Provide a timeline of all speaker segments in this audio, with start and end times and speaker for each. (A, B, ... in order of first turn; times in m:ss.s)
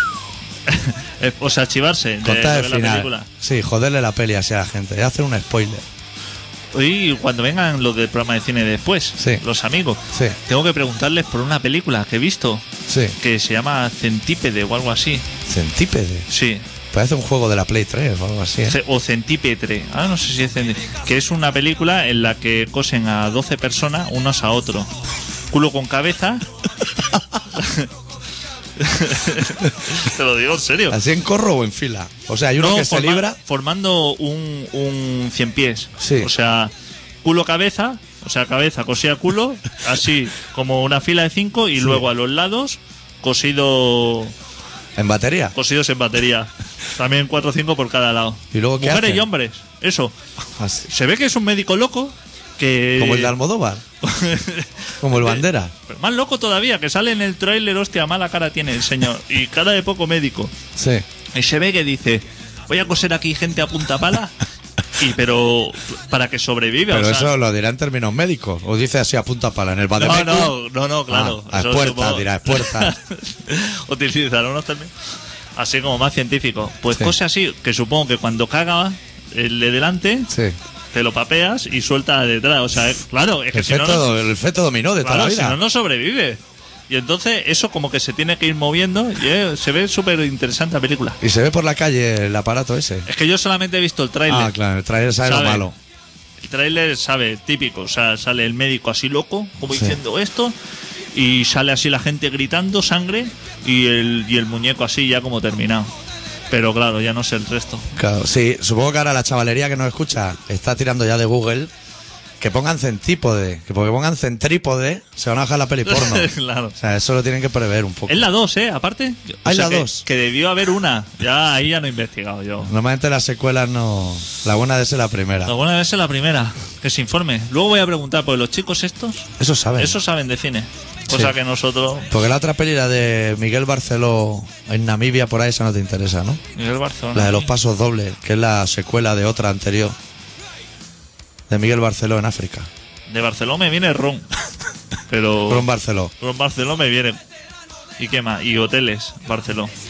0:00.7-0:03.3 A
0:02.2-0:05.8 B
0:06.7-0:12.6 A
0:10.1-0:10.4 B
0:12.9-0:13.2 B
0:13.2-0:15.2 A
0:15.5-0:16.3 B
0:16.3-0:16.6 A
0:16.9-0:18.8 B
0:18.7-0:24.9 A
0:25.5-0:26.4 A
0:27.5-0:27.9 A
0:28.8-0:31.0 A
0:30.9-0:33.4 B
0:32.6-0:36.7 A
0:36.0-0:36.3 B
0:37.2-0:44.3 A
0:41.8-0:42.0 B
0:45.0-0:45.5 B
0:45.5-0:50.1 A
0:48.5-0:49.3 B
0:50.6-0:50.9 B
0:50.9-0:53.3 A
0:53.0-0:53.8 B
0:54.0-1:00.5 A
0:55.0-0:55.7 B
1:00.8-1:01.0 B
1:01.3-1:04.4 A
1:05.0-1:07.3 A
1:06.9-1:10.5 B
1:10.0-1:14.9 A
1:11.1-1:12.9 B
1:15.6-1:20.3 A
1:20.3-1:20.6 B
1:20.9-1:24.0 A
1:23.5-1:25.6 B
1:25.0-1:31.2 A
1:31.2-1:33.1 B
1:33.1-1:34.5 A
1:34.3-1:35.7 B
1:35.2-1:35.7 A
1:36.4-1:40.5 A
1:39.7-1:40.0 B
1:41.1-1:45.9 A
1:46.5-1:47.9 A
1:48.0-1:51.7 B
1:52.4-1:58.3 B
1:55.8-1:56.7 A
1:58.1-2:02.7 A
1:59.4-2:00.0 B
2:02.6-2:05.5 B
2:05.4-2:12.1 A
2:09.4-2:10.0 B
2:12.1-2:16.4 B
2:16.6-2:17.5 A
2:17.1-2:20.0 B
2:21.5-2:22.7 B
2:23.1-2:24.3 A
2:25.1-2:25.7 A
2:25.5-2:26.1 B
2:26.2-2:27.2 A
2:28.0-2:29.7 A